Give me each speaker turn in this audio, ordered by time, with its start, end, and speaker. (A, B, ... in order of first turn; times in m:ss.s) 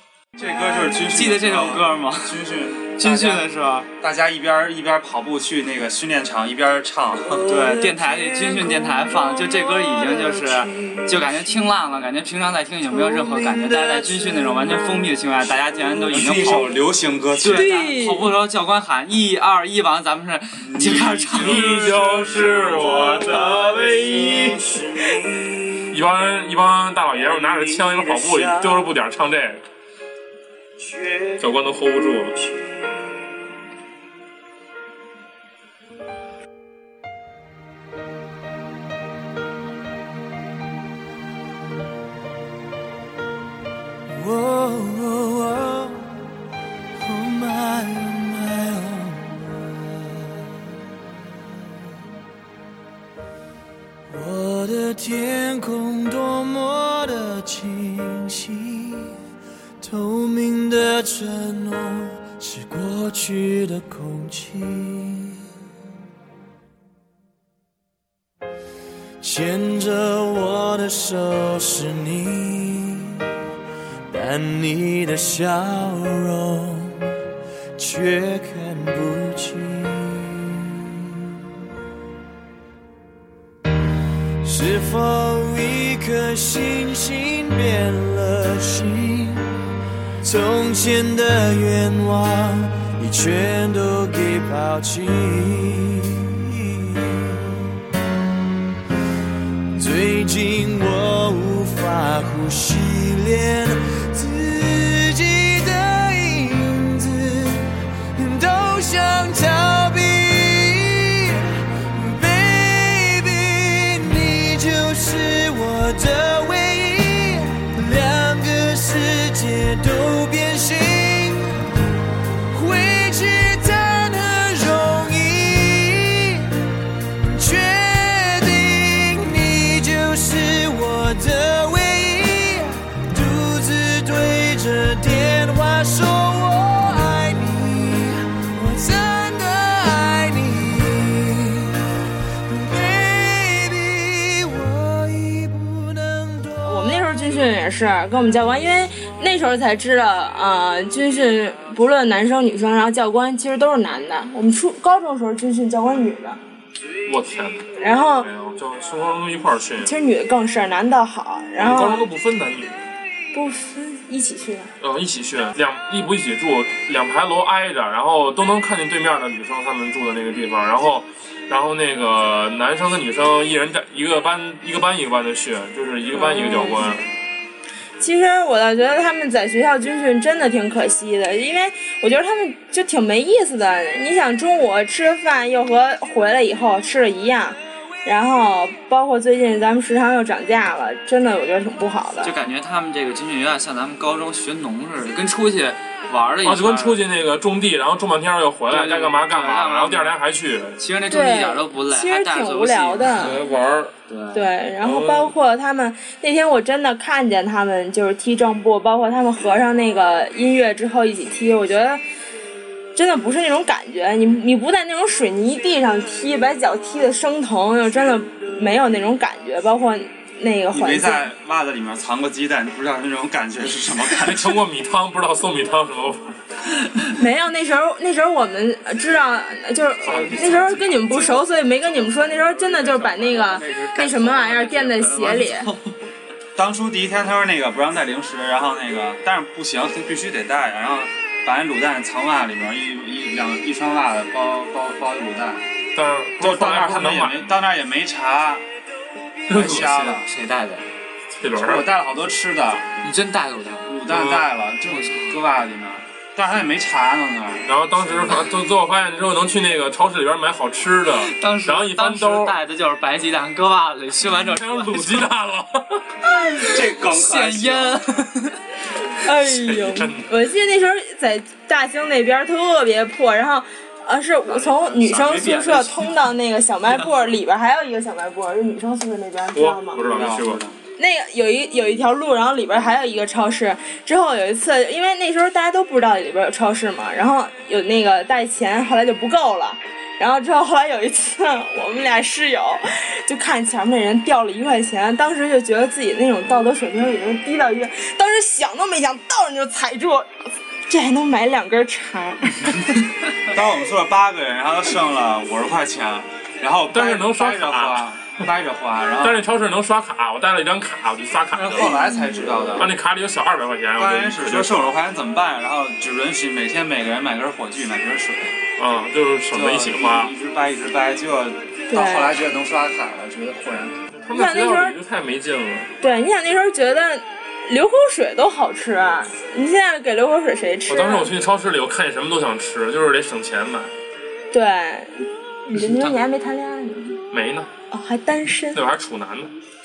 0:00.4-0:07.8 A
0:01.0-0:02.4 B
0:02.9-0:03.9 B
0:07.4-0:16.8 B
0:13.0-0:14.2 C
0:15.6-0:17.7 A
0:17.4-0:21.8 B
0:17.5-0:18.3 C
0:20.6-0:23.1 A
0:21.3-0:23.7 D
0:21.8-0:26.0 E
0:25.9-0:29.6 D
0:27.1-0:28.9 E
0:30.8-0:31.8 E
0:31.4-0:32.4 D
0:44.1-0:46.2 E
0:47.0-0:50.7 E
0:54.1-0:59.2 E
0:59.8-1:05.4 E
1:09.2-1:13.3 E
1:14.1-1:17.2 E
1:17.8-1:21.3 E
1:24.4-1:29.5 E
1:30.2-1:37.8 E
1:39.8-2:01.7 E
2:02.5-2:06.6 E
2:07.2-2:21.8 E
2:22.5-2:27.1 E
2:26.6-2:36.4 C
2:37.1-2:39.9 D
2:37.8-2:38.3 C
2:39.8-2:42.1 C
2:41.6-2:42.8 D
2:43.3-2:44.7 C
2:44.8-2:57.0 D
2:56.1-2:56.8 C
2:58.0-3:12.3 C
3:12.2-3:17.0 B
3:16.4-3:20.8 D
3:18.7-3:20.2 B
3:20.8-3:23.4 B
3:21.1-3:23.4 C
3:23.1-3:23.9 D
3:24.1-3:24.5 B
3:24.3-3:32.0 C
3:24.8-3:25.3 D
3:33.0-3:41.3 C
3:40.7-3:44.6 A
3:44.0-3:46.4 D
3:47.2-3:55.7 C
3:50.0-3:51.4 D
3:52.1-3:52.5 D
3:52.6-3:55.9 B
3:56.6-4:05.6 A
4:06.0-4:07.5 D
4:06.4-4:08.6 A
4:09.5-4:09.8 D
4:09.5-4:10.8 B
4:09.6-4:10.2 A
4:11.4-4:11.9 D
4:11.5-4:12.9 A
4:13.0-4:14.0 B
4:13.9-4:17.7 A
4:14.1-4:14.5 D
4:14.9-4:15.4 B
4:17.7-4:22.6 D
4:21.2-4:25.3 B
4:24.4-4:26.0 D
4:26.3-4:28.6 B
4:26.5-4:28.0 A
4:29.2-4:40.0 C
4:29.3-4:30.3 D
4:34.5-4:35.7 A
4:34.8-4:36.3 B
4:39.5-4:40.6 D
4:40.0-4:40.8 A
4:41.0-5:00.3 C
5:00.9-5:02.9 C
5:03.5-5:09.5 A
5:06.9-5:08.1 D
5:09.2-5:12.0 D
5:11.5-5:12.9 A
5:11.8-5:12.4 C
5:12.8-5:14.9 D
5:14.0-5:18.6 A
5:18.8-5:20.3 D
5:19.5-5:24.0 A
5:21.9-5:22.4 C
5:24.2-5:25.9 D
5:24.3-5:25.0 C
5:26.0-5:31.3 C
5:30.9-5:33.9 D
5:34.5-5:37.2 C
5:37.3-5:37.7 D
5:37.9-5:38.8 C
5:38.7-5:39.5 D